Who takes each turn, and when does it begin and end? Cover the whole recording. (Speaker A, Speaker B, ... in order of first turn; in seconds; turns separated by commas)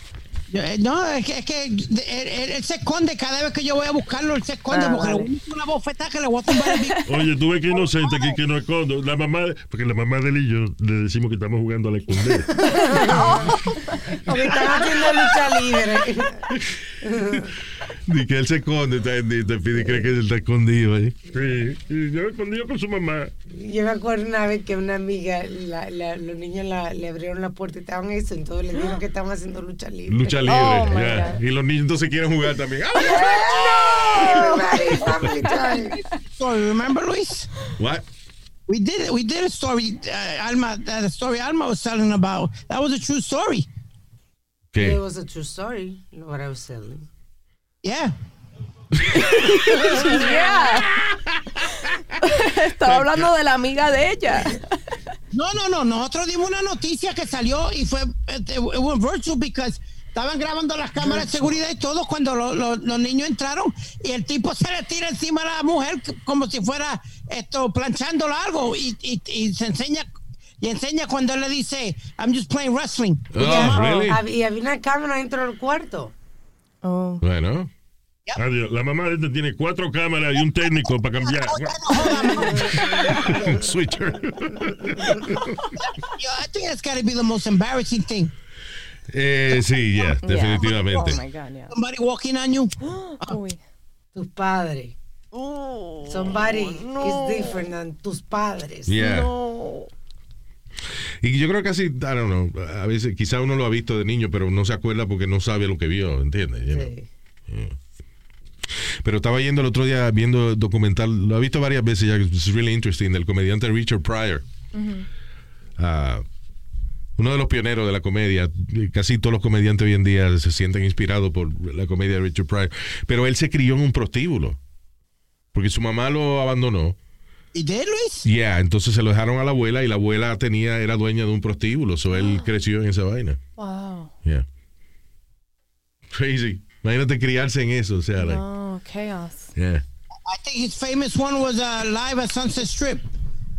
Speaker A: 0.5-7.0, Speaker B: 4.7-5.3, Speaker B: 6.5-7.2, Speaker C: 7.0-12.5, Speaker D: 12.5-13.6, Speaker B: 12.8-14.2, Speaker D: 14.2-16.5, Speaker D: 17.0-17.5, Speaker E: 18.1-21.1, Speaker D: 19.8-20.0, Speaker C: 21.3-23.3, Speaker D: 23.5-30.9, Speaker E: 30.1-34.5, Speaker B: 30.5-31.4, Speaker D: 32.9-36.0, Speaker B: 34.1-34.5, Speaker A: 36.3-37.5, Speaker E: 37.8-38.0, Speaker A: 38.7-43.7, Speaker E: 44.7-45.0, Speaker D: 44.8-47.1, Speaker A: 47.8-48.1, Speaker E: 48.9-50.0, Speaker B: 49.1-50.9, Speaker D: 49.8-50.4, Speaker E: 50.9-51.9, Speaker B: 52.2-54.8, Speaker E: 52.8-53.3, Speaker A: 55.3-70.1, Speaker A: 70.6-73.7, Speaker E: 73.3-74.2, Speaker D: 73.4-76.1, Speaker B: 76.8-77.2, Speaker E: 77.2-77.7, Speaker C: 78.4-81.9, Speaker A: 81.3-82.8, Speaker B: 82.2-83.2, Speaker D: 82.5-83.5, Speaker E: 83.3-85.5, Speaker A: 85.8-88.3, Speaker E: 89.1-91.2, Speaker B: 90.2-91.7, Speaker A: 90.6-91.1, Speaker A: 91.7-93.4, Speaker B: 92.8-93.6, Speaker D: 94.1-94.9, Speaker B: 95.3-97.6, Speaker D: 96.1-98.9, Speaker E: 98.9-99.3, Speaker B: 99.0-99.9, Speaker E: 101.2-106.9, Speaker D: 106.7-107.1, Speaker E: 107.5-107.8, Speaker E: 109.0-114.4, Speaker B: 114.7-115.1, Speaker E: 115.8-116.2, Speaker E: 117.2-124.6, Speaker E: 125.5-127.0, Speaker A: 127.5-128.2, Speaker E: 128.2-133.4, Speaker B: 132.1-132.5, Speaker B: 133.6-134.1, Speaker E: 136.1-138.4, Speaker B: 138.2-139.5, Speaker E: 139.6-139.8, Speaker A: 140.2-143.1